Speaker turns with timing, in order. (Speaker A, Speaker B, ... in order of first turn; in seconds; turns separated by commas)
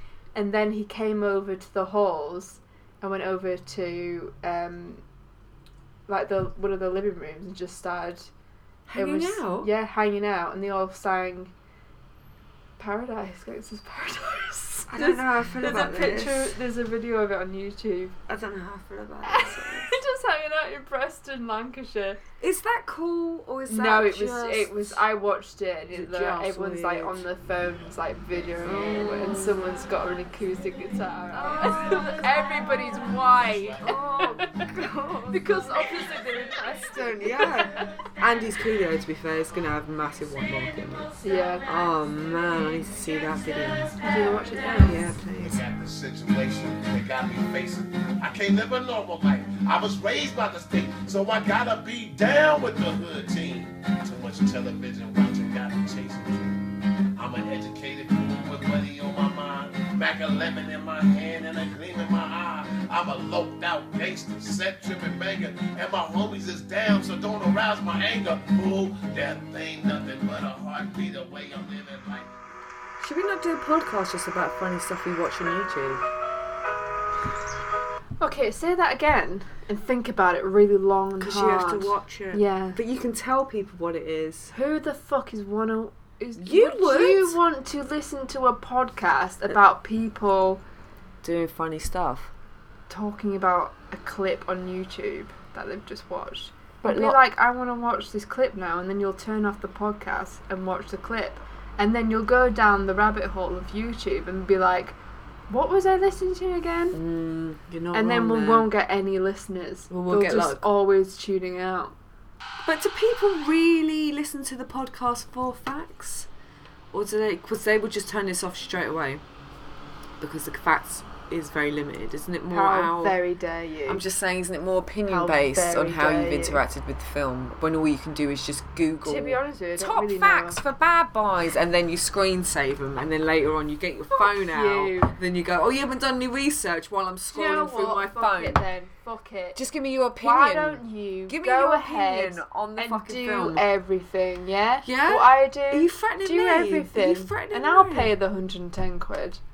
Speaker A: 0.3-5.0, Speaker A: 6.1-8.3, Speaker B: 8.9-9.7, Speaker A: 9.0-11.5, Speaker A: 12.8-18.2, Speaker B: 14.9-16.5, Speaker B: 18.3-19.9, Speaker A: 19.2-22.2, Speaker B: 22.4-25.0, Speaker A: 23.7-34.5, Speaker B: 25.9-27.3, Speaker B: 28.6-29.8, Speaker B: 31.3-32.6, Speaker B: 33.8-35.8, Speaker A: 35.3-37.9, Speaker B: 37.0-41.1, Speaker A: 41.2-41.6, Speaker B: 41.6-44.0, Speaker A: 44.0-45.1, Speaker B: 44.8-45.6, Speaker C: 45.4-56.6, Speaker C: 57.2-72.3, Speaker B: 73.0-76.1, Speaker A: 78.2-82.8, Speaker B: 81.2-84.5, Speaker A: 84.5-90.6, Speaker B: 86.4-87.4, Speaker B: 91.2-92.3, Speaker A: 92.9-105.0, Speaker B: 96.8-97.2, Speaker A: 105.5-107.0, Speaker B: 106.9-108.7, Speaker A: 107.9-112.0, Speaker B: 109.9-110.7, Speaker B: 112.6-116.3, Speaker B: 116.9-119.2, Speaker B: 120.2-123.2, Speaker A: 122.5-124.0, Speaker B: 123.9-138.6, Speaker A: 125.1-126.6, Speaker A: 129.0-130.6, Speaker A: 134.1-135.2, Speaker A: 137.3-139.6, Speaker B: 139.6-143.7, Speaker A: 140.2-149.4, Speaker B: 144.8-148.2